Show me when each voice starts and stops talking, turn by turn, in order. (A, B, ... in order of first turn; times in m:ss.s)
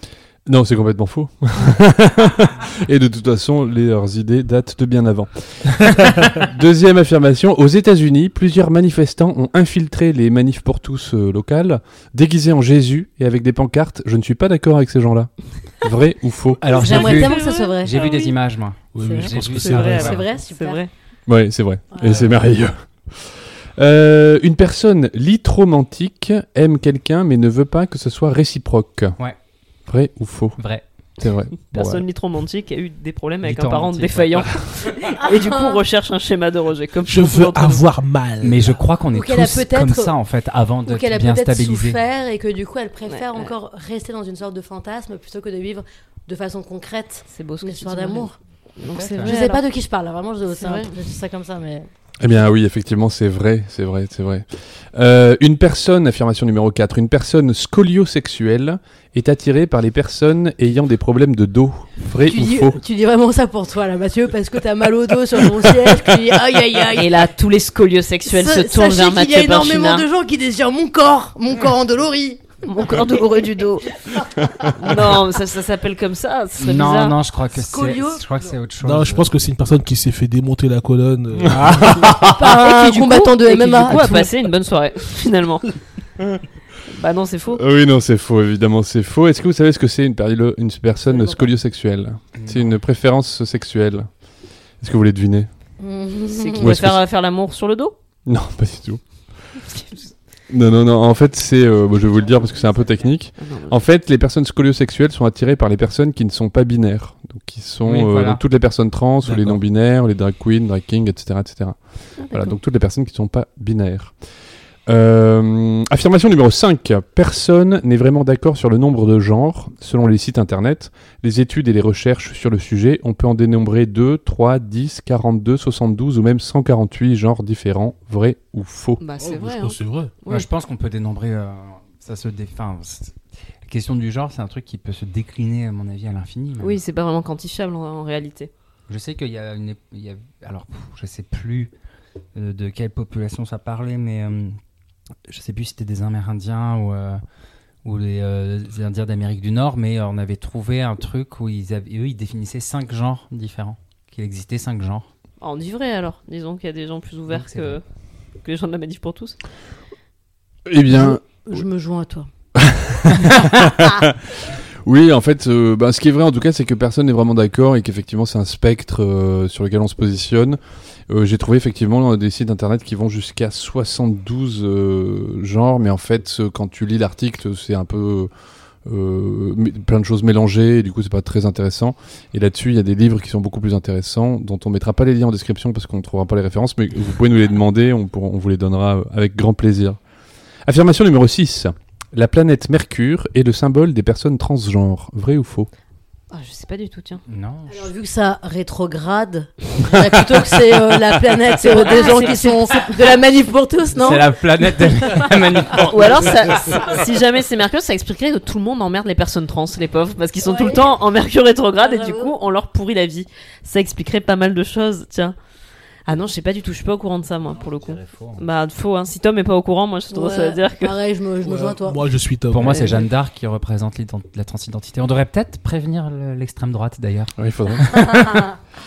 0:00.5-0:16.6 A
0:16.6-0:20.2 B
0:16.7-0:18.0 C
0:16.7-0:18.3 D
0:18.9-0:20.2 E
0:19.0-0:20.8 C
0:19.4-0:20.9 D
0:21.3-0:29.2 A
0:21.9-0:22.3 C
0:29.9-0:30.6 A
0:30.6-0:30.8 B
0:31.2-0:31.6 A
0:31.7-0:37.8 D
0:31.7-0:32.0 B
0:33.4-0:34.6 B
0:35.2-0:35.8 C
0:37.0-0:38.8 E
0:38.4-0:42.0 B
0:39.1-0:40.1 C
0:40.8-0:48.4 C
0:43.1-0:43.5 D
0:47.3-0:49.6 D
0:48.9-0:49.4 B
0:49.2-0:51.9 C
0:50.4-0:50.9 D
0:52.2-1:02.8 A
1:02.2-1:07.2 C
1:06.9-1:10.0 D
1:08.2-1:14.3 C
1:12.6-1:13.9 D
1:14.8-1:17.2 D
1:16.6-1:19.3 B
1:17.5-1:18.3 C
1:18.8-1:22.3 E
1:21.5-1:22.3 A
1:22.3-1:24.3 C
1:22.4-1:25.8 D
1:26.9-1:27.6 D
1:27.6-1:34.1 A
1:31.0-1:31.5 C
1:32.3-1:32.8 B
1:34.8-1:35.5 A
1:35.8-1:36.8 C
1:36.3-1:37.9 D
1:36.6-1:37.0 A
1:38.2-1:39.1 A
1:40.5-1:54.1 A
1:43.4-1:43.7 D
1:47.8-1:48.4 B
1:49.2-1:49.6 E
1:52.2-1:52.6 D
1:54.8-2:09.0 A
2:09.0-2:10.5 D
2:09.2-2:10.1 E
2:10.3-2:16.8 B
2:16.6-2:18.5 D
2:18.9-2:21.7 B
2:22.3-2:24.6 B
2:25.3-2:27.2 B
2:27.8-2:35.1 B
2:35.4-2:37.8 D
2:37.3-2:37.8 B
2:38.4-2:39.4 D
2:40.6-2:41.6 A
2:40.9-2:42.3 C
2:42.6-2:44.2 A
2:44.8-2:50.6 A
2:51.1-2:58.3 A
2:58.8-3:10.0 A
3:10.6-3:15.7 A
3:16.3-3:17.2 D
3:17.3-3:17.9 B
3:17.7-3:25.3 C
3:21.6-3:23.2 D
3:24.0-3:26.1 B
3:25.8-3:35.3 D
3:30.4-3:30.9 C
3:31.8-3:32.3 C
3:36.0-3:41.0 D
3:37.8-3:38.4 B
3:40.1-3:43.1 C
3:41.4-3:42.9 E
3:42.5-3:47.3 B
3:47.4-3:48.5 A